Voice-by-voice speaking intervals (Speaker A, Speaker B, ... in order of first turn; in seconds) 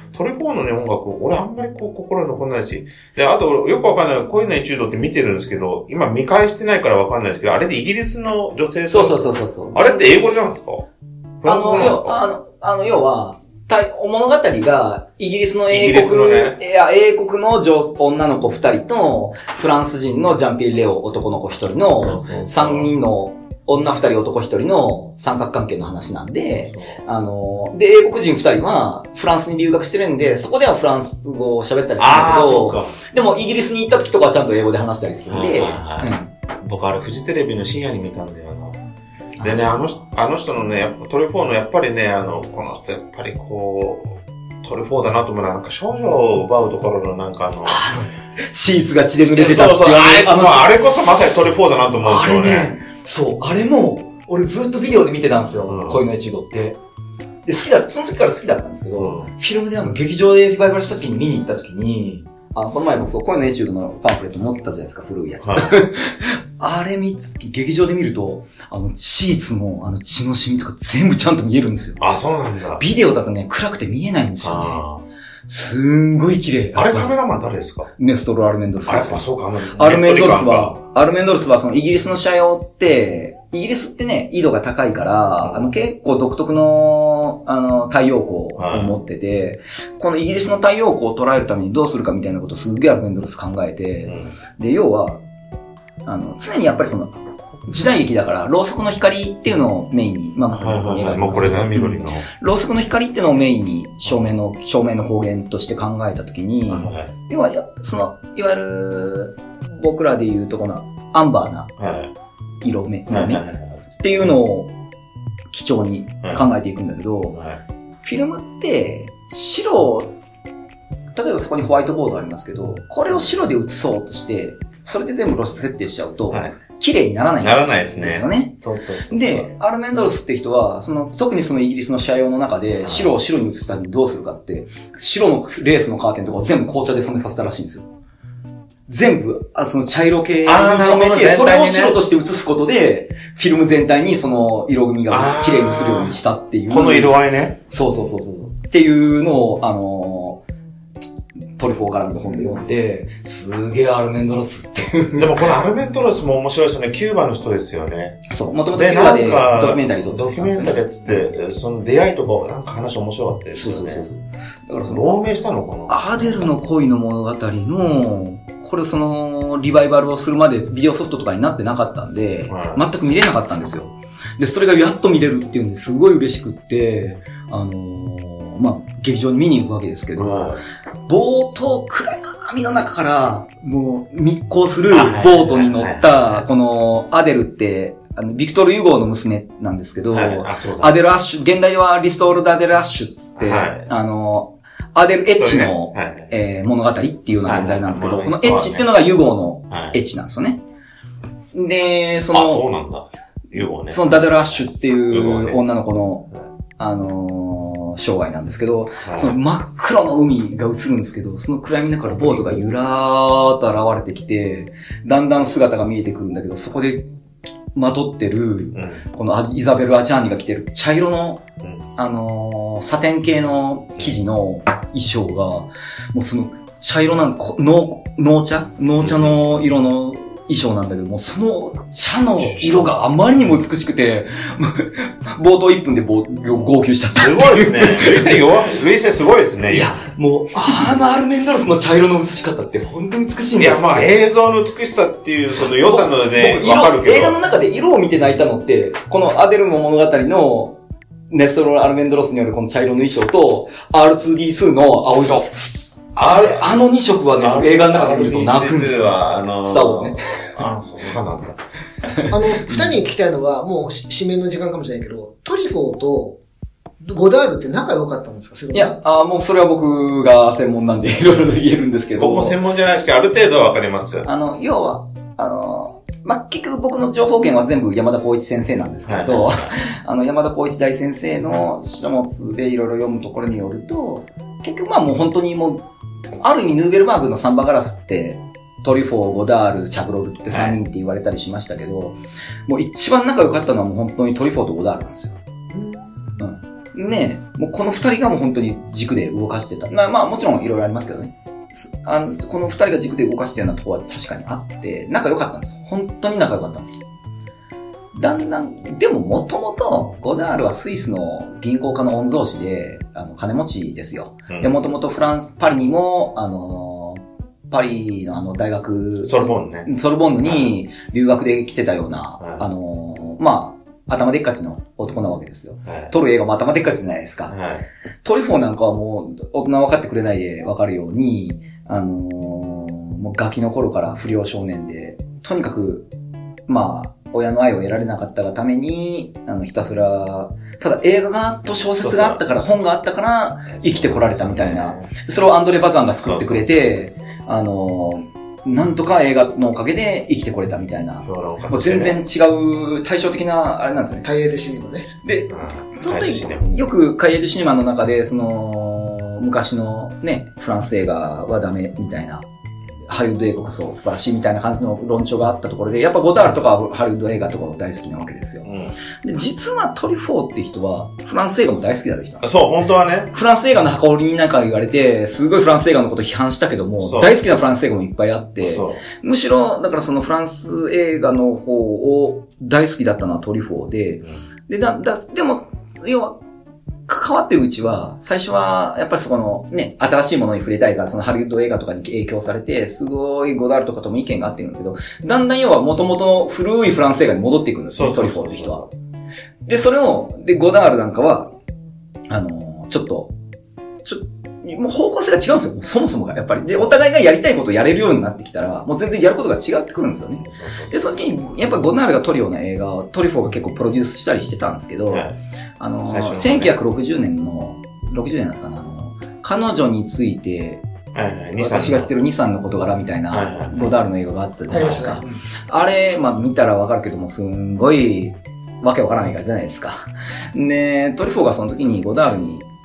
Speaker A: 0.1-9.2, 9.7-10.9, 11.4-12.2, 15.7-16.6, 21.9-22.9, 26.7-27.0, 32.0-33.0, 35.3-38.8, 39.4-47.8, 49.2-52.8, 55.6-56.0, 58.9-59.3, 65.4-65.7, 72.0-72.8, 74.4-75.0, 76.7-77.9, 78.9-80.8, 85.4-85.7, 88.6-88.9, 94.1-94.3, 100.5-102.3, 106.7-107.1, 111.8-112.1, 113.1-114.3, 117.3-117.6, 126.3-126.5, 127.4-129.5, 132.8-133.1, 140.4-142.0, 145.1-146.2, 146.7-147.6, 155.2-164.1, 164.9-166.6, 172.5-172.8, 180.2-180.6, 184.9-186.4, 190.1-191.0, 193.4-193.9, 195.3-196.3, 197.4-198.9, 199.7-200.0, 202.3-205.6, 209.0-209.3, 212.2-212.6, 218.7-219.0, 229.0-229.5, 232.4-232.9, 237.1-240.0, 243.6-247.4, 256.2-256.6, 257.4-261.6, 272.2-274.3, 279.1-279.7, 290.5-290.8, 314.5-314.7, 319.2-319.9, 320.4-320.7, 325.9-326.1, 327.5-327.9, 342.0-342.4, 343.7-345.2, 346.2-347.3, 351.2-352.2, 355.5-356.9, 368.6-368.9, 372.4-373.3, 377.0-377.4, 378.6-379.0, 397.9-398.9, 410.4-411.1, 415.1-415.4, 416.1-416.8, 421.1-422.1, 423.3-424.0, 424.7-425.1
Speaker B: 8.9-10.3, 11.4-36.3, 47.7-50.7, 52.0-56.8, 57.5-72.0, 72.8-74.8, 75.5-77.1, 78.0-79.2, 79.8-95.2, 96.0-97.1, 97.7-111.7, 112.6-113.4, 114.0-114.7, 115.5-117.4, 118.0-120.2, 121.2-128.5, 129.1-137.9, 138.9-147.2, 147.7-150.4, 151.6-155.4, 158.3-160.8, 163.6-165.1, 165.9-180.5, 181.1-200.6, 201.5-202.6, 203.9-217.1, 217.8-221.4, 222.0-238.4, 239.7-244.1, 245.8-250.8, 251.3-255.6, 256.2-260.5, 262.1-262.9, 268.7-272.6, 274.2-285.8, 286.4-295.4, 296.4-307.1, 308.1-327.6, 328.2-336.1, 336.7-354.3, 355.2-362.5, 363.1-368.7, 369.2-372.5, 373.3-386.4, 387.1-398.8, 399.7-401.5, 402.3-403.3, 404.0-415.3, 415.8-420.8, 421.6-432.7
Speaker C: 262.3-266.4, 267.0-269.0, 295.7-296.1, 354.2-355.1, 424.7-425.4